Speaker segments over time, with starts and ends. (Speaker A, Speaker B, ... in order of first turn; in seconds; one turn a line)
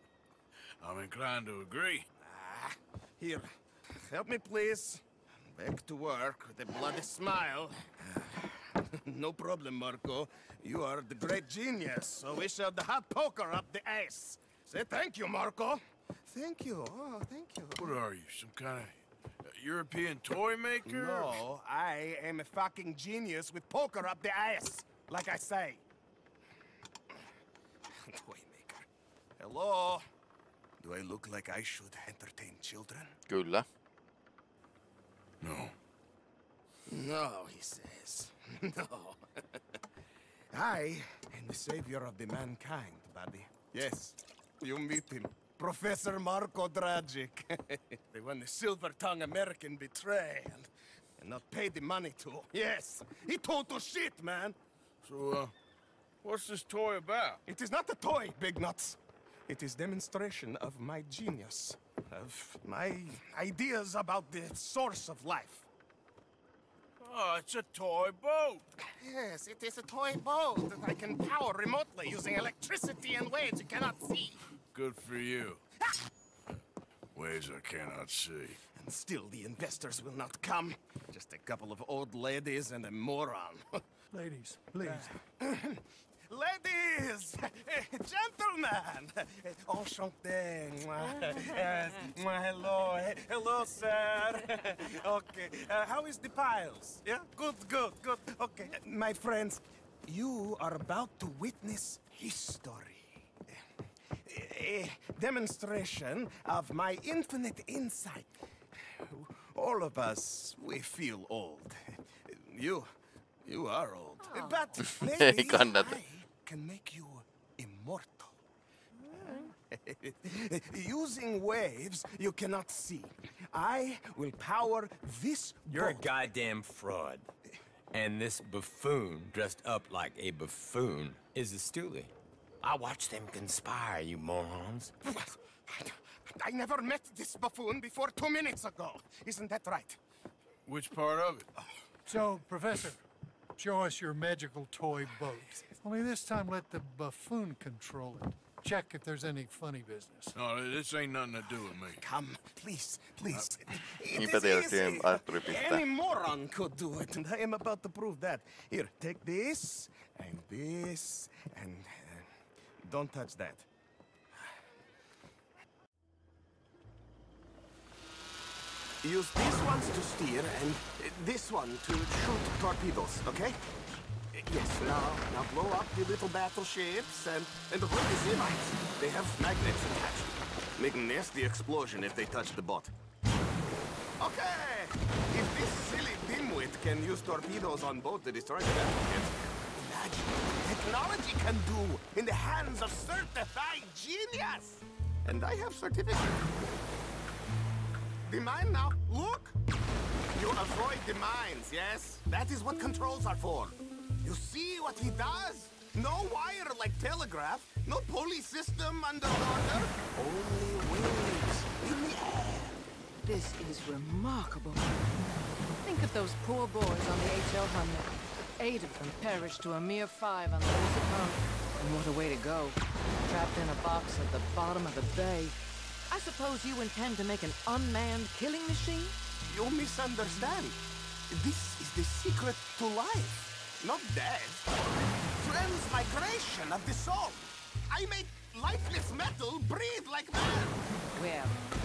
Speaker A: 0.8-2.1
Speaker B: 2.2-17.8
Speaker A: 17.8-21.4
Speaker B: 20.8-25.8
Speaker B: 27.9-28.9
Speaker B: 29.4-30.1
Speaker B: 30.8-33.1
Speaker C: 33.3-33.7
Speaker A: 35.4-35.7
Speaker B: 36.9-39.6
Speaker B: 40.5-54.5
Speaker A: 55.0-55.5
Speaker A: 56.2-57.4
Speaker B: 57.5-65.7
Speaker A: 67.0-68.7
Speaker B: 68.9-74.4
Speaker A: 74.7-75.6
Speaker A: 77.1-78.6
Speaker B: 78.7-83.8
Speaker D: 84.1-85.1
Speaker B: 84.8-103.6
Speaker B: 104.2-112.9
Speaker B: 113.4-118.4
Speaker C: 114.8-116.0
Speaker B: 119.1-126.1
Speaker E: 125.7-127.3
Speaker E: 127.9-134.9
Speaker B: 135.2-140.0
Speaker A: 140.7-141.5
Speaker D: 142.1-143.0
Speaker D: 143.6-150.3
Speaker A: 150.3-152.0
Speaker B: 151.9-162.3
Speaker C: 154.1-155.8
Speaker B: 162.8-163.7
Speaker B: 169.0-173.6
Speaker B: 174.3-182.9
Speaker B: 184.2-196.7
Speaker B: 198.2-199.6
Speaker B: 200.3-212.8
Speaker F: 213.2-214.9
Speaker F: 215.8-225.6
Speaker F: 226.1-229.2
Speaker B: 229.5-234.6
Speaker B: 235.3-240.8
Speaker F: 241.1-241.6